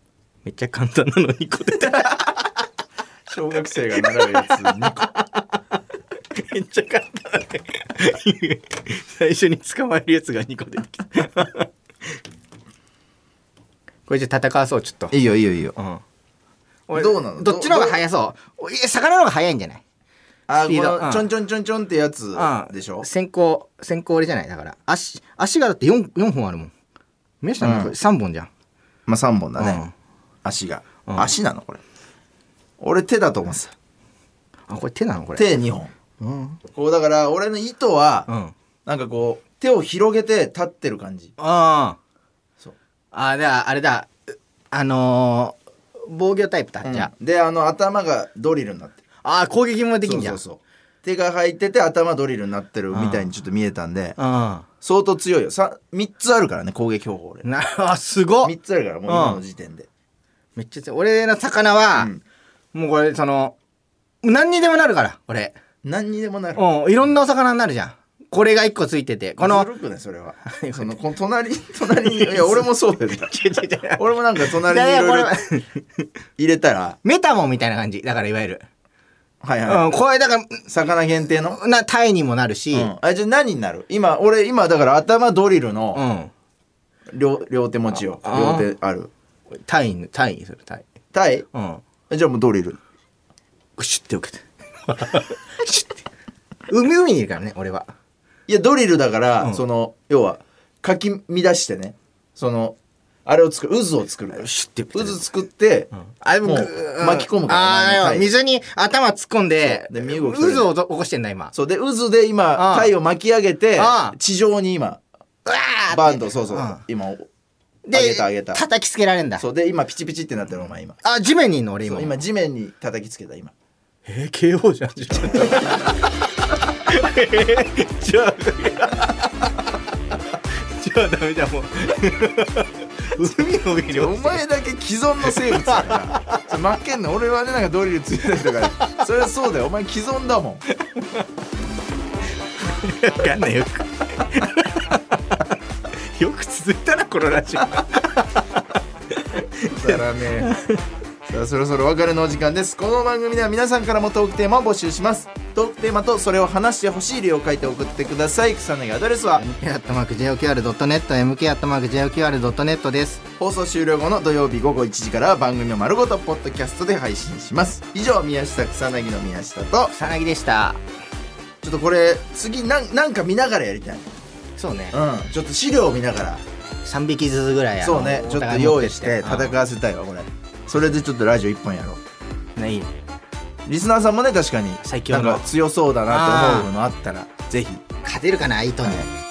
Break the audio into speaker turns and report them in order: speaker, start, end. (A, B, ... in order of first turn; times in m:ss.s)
0:00.4-0:02.3 A
0:01.8-0:02.2 B
0:03.3-0:05.1 B
0:03.9-0:05.5 A
0:06.3-0:11.7 A
0:14.1-0:15.1 A
0:15.1-0:15.8 B
0:15.8-0:16.0 A
0:16.9-0:19.8 A
0:16.9-0:18.0 B
0:20.5-0:23.1 B
0:20.5-0:21.3 A
0:22.3-0:26.7 A
0:27.4-0:28.5 A
0:27.6-0:27.9 B
0:29.1-0:29.8 B
0:29.6-0:29.9 A
0:30.4-0:31.8 B
0:32.8-0:33.7 B
0:34.7-0:35.5 A
0:35.4-0:35.9 B
0:36.2-0:36.6 A
0:36.7-0:38.3 B
0:38.3-0:38.5 A
0:38.8-0:41.3 B
0:41.4-0:42.0 A
0:43.1-0:44.1 A
0:44.7-0:47.1 A
0:46.8-0:49.0 B
0:49.2-0:50.4 A
0:50.0-0:54.2 B
0:52.9-0:53.2 A
0:54.2-0:54.6 A
0:54.8-0:57.5 B
0:57.4-0:58.5 A
0:58.4-0:59.9 B
0:59.0-0:59.4 A
1:00.6-1:02.1 A
1:02.0-1:02.2 B
1:02.7-1:03.5 A
1:04.2-1:05.6 A
1:05.8-1:06.7 B
1:06.5-1:09.7 A
1:09.4-1:13.3 B
1:10.4-1:11.0 A
1:12.0-1:12.7 A
1:13.2-1:15.8 A
1:13.9-1:15.3 B
1:16.4-1:17.0 B
1:17.0-1:18.6 A
1:19.4-1:19.9 B
1:19.6-1:20.7 A
1:20.6-1:21.6 B
1:21.4-1:22.9 A
1:22.7-1:26.0 B
1:25.9-1:26.3 A
1:27.1-1:29.1 B
1:28.2-1:28.7 A
1:29.6-1:30.9 A
1:31.1-1:31.4 B
1:31.5-1:31.8 A
1:32.1-1:32.8 B
1:33.8-1:36.0 A
1:36.7-1:37.9 A
1:38.5-1:45.9 B
1:44.4-1:45.2 A
1:46.1-1:51.5 A
1:46.4-1:48.3 B
1:49.6-1:50.7 B
1:51.5-1:55.0 B
1:52.5-1:52.9 A
1:53.8-1:54.2 A
1:55.4-1:56.8 A
1:55.9-1:57.3 B
1:57.8-1:59.4 A
1:57.9-1:58.6 B
1:59.4-2:01.0 B
2:01.0-2:02.2 A
2:01.8-2:03.5 B
2:04.0-2:06.1 A
2:05.1-2:05.9 B
2:06.7-2:14.4 A
2:13.4-2:20.6 B
2:15.2-2:16.0 A
2:18.4-2:19.0 A
2:20.9-2:21.2 A
2:22.6-2:25.5 A
2:26.1-2:30.8 A
2:29.6-2:30.5 B
2:31.3-2:39.4 B
2:39.3-2:43.2 A
2:43.4-2:49.9 B
2:49.9-2:50.8 A
2:51.6-2:54.1 B
2:54.6-2:55.0 A
2:54.9-2:56.4 B
2:56.8-2:59.6 A
2:57.8-3:02.0 B
3:02.6-3:02.9 A
3:03.6-3:07.8 B
3:04.8-3:05.5 A
3:06.1-3:06.7 A
3:08.0-3:09.1 A